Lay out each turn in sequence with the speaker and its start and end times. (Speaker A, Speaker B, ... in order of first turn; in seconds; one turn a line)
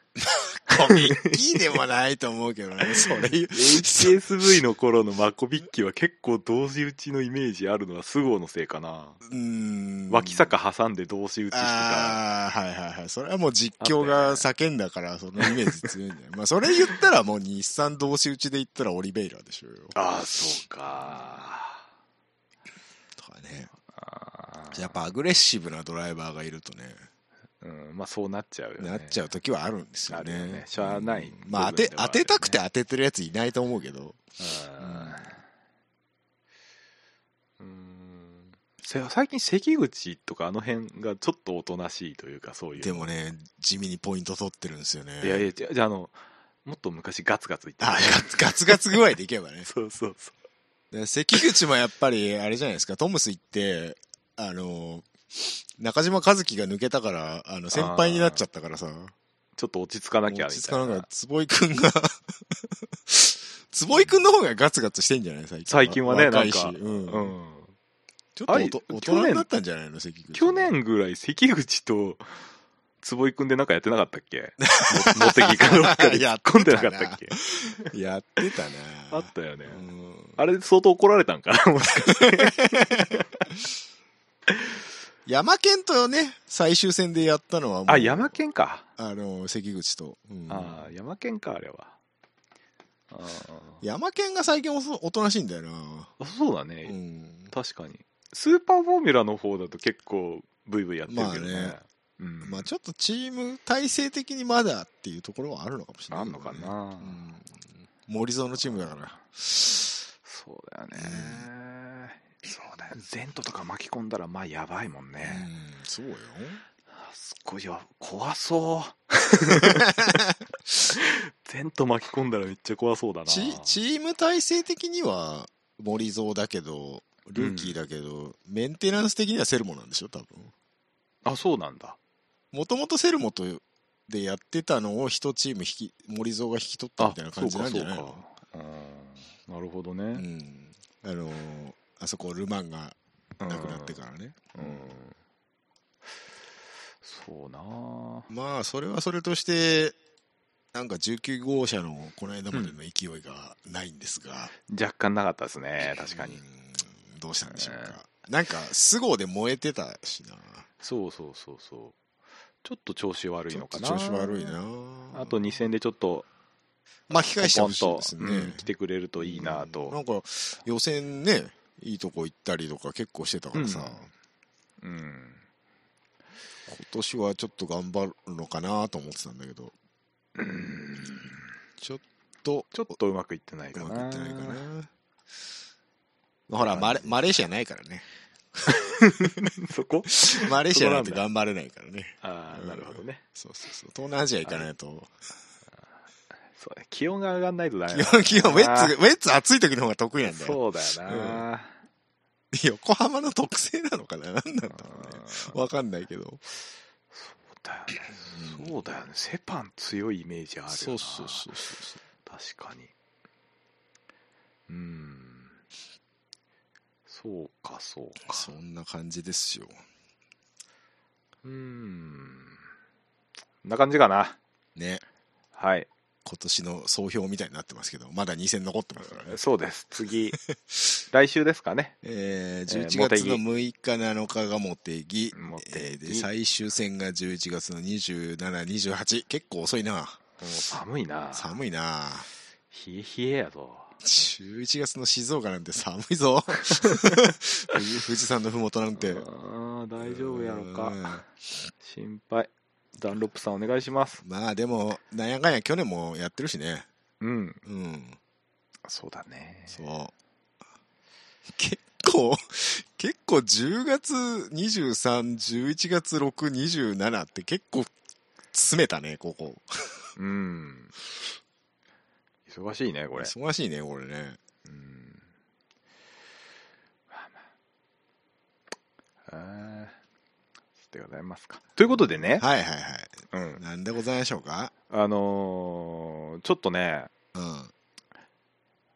Speaker A: 0.2-4.2
Speaker B: 0.9-1.4
Speaker B: 3.1-9.2
Speaker A: 9.2-10.5
Speaker B: 10.1-12.2
Speaker A: 11.5-20.0
Speaker B: 13.8-14.5
Speaker B: 15.4-15.8
Speaker B: 19.9-21.8
Speaker A: 23.2-23.7
Speaker B: 23.9-25.0
Speaker A: 24.7-27.1
Speaker B: 27.6-29.2
Speaker A: 28.8-34.2
Speaker B: 30.1-32.6
Speaker B: 34.4-35.4
Speaker A: 34.8-35.3
Speaker B: 37.6-43.1
Speaker A: 42.8-45.5
Speaker B: 45.2-49.0
Speaker A: 47.8-49.7
Speaker B: 49.7-50.3
Speaker A: 50.9-59.1
Speaker B: 57.7-58.4
Speaker B: 59.6-61.1
Speaker A: 60.3-67.3
Speaker B: 65.7-67.7
Speaker A: 68.4-70.7
Speaker B: 68.5-69.5
Speaker B: 70.3-72.3
Speaker B: 73.0-77.4
Speaker A: 74.6-80.4
Speaker B: 79.1-79.9
Speaker B: 80.4-83.2
Speaker A: 82.2-83.1
Speaker A: 85.3-88.3
Speaker B: 87.9-88.9
Speaker A: 89.0-90.9
Speaker B: 90.5-91.9
Speaker B: 93.1-93.8
Speaker A: 93.8-96.1
Speaker B: 96.2-97.0
Speaker A: 96.8-97.5
Speaker B: 97.5-102.7
Speaker A: 101.1-101.8
Speaker A: 102.4-109.9
Speaker B: 106.1-107.2
Speaker B: 108.7-109.2
Speaker B: 110.2-115.5
Speaker A: 111.0-111.5
Speaker A: 115.2-116.6
Speaker B: 117.0-120.0
Speaker A: 119.5-120.4
Speaker B: 120.9-123.8
Speaker A: 123.3-130.5
Speaker B: 127.4-127.8
Speaker B: 131.2-132.0
Speaker A: 132.5-138.2
Speaker B: 137.0-140.2
Speaker A: 140.2-145.0
Speaker B: 143.4-144.0
Speaker B: 144.6-145.2
Speaker B: 147.0-148.3
Speaker A: 148.3-150.0
Speaker A: 150.7-154.5
Speaker B: 154.7-156.4
Speaker A: 155.8-160.7
Speaker B: 157.5-158.0
Speaker B: 160.8-161.9
Speaker B: 162.6-164.6
Speaker A: 163.5-165.4
Speaker B: 165.1-166.3
Speaker A: 167.1-174.1
Speaker B: 167.1-170.0
Speaker B: 173.5-174.0
Speaker B: 174.8-175.4
Speaker A: 176.7-179.7
Speaker B: 180.4-181.4
Speaker A: 181.8-182.9
Speaker B: 182.7-184.7
Speaker A: 183.7-184.9
Speaker A: 186.5-188.7
Speaker B: 186.6-187.2
Speaker B: 188.7-191.2
Speaker A: 190.2-195.1
Speaker B: 192.2-193.2
Speaker B: 196.6-198.9
Speaker A: 197.9-201.4
Speaker B: 200.2-201.7
Speaker A: 202.5-206.4
Speaker B: 204.7-205.6
Speaker B: 207.1-211.5
Speaker A: 208.3-208.7
Speaker A: 210.7-212.0
Speaker B: 212.2-212.9
Speaker B: 214.7-215.5
Speaker B: 217.1-218.5
Speaker A: 218.3-219.8
Speaker B: 221.4-222.6
Speaker B: 223.6-224.4
Speaker A: 224.8-225.0
Speaker B: 225.6-225.9
Speaker A: 226.2-229.4
Speaker B: 229.0-230.4
Speaker B: 231.1-231.9
Speaker A: 232.0-240.2
Speaker B: 232.7-233.4
Speaker B: 235.3-236.3
Speaker B: 240.4-241.6
Speaker A: 241.3-242.3
Speaker B: 242.7-243.9
Speaker A: 244.0-249.3
Speaker B: 249.0-251.2
Speaker A: 250.0-251.3
Speaker B: 251.8-254.2
Speaker A: 254.2-256.9
Speaker B: 257.2-257.6
Speaker A: 257.6-258.2
Speaker B: 258.9-259.8
Speaker A: 259.7-260.1
Speaker A: 261.5-267.9
Speaker A: 268.5-270.0
Speaker B: 270.2-270.9
Speaker B: 272.5-273.3
Speaker A: 273.2-274.4
Speaker B: 274.7-275.2
Speaker B: 279.3-279.9
Speaker B: 280.9-282.4
Speaker A: 282.4-284.7
Speaker B: 283.3-283.6
Speaker B: 284.9-287.1
Speaker A: 287.3-287.7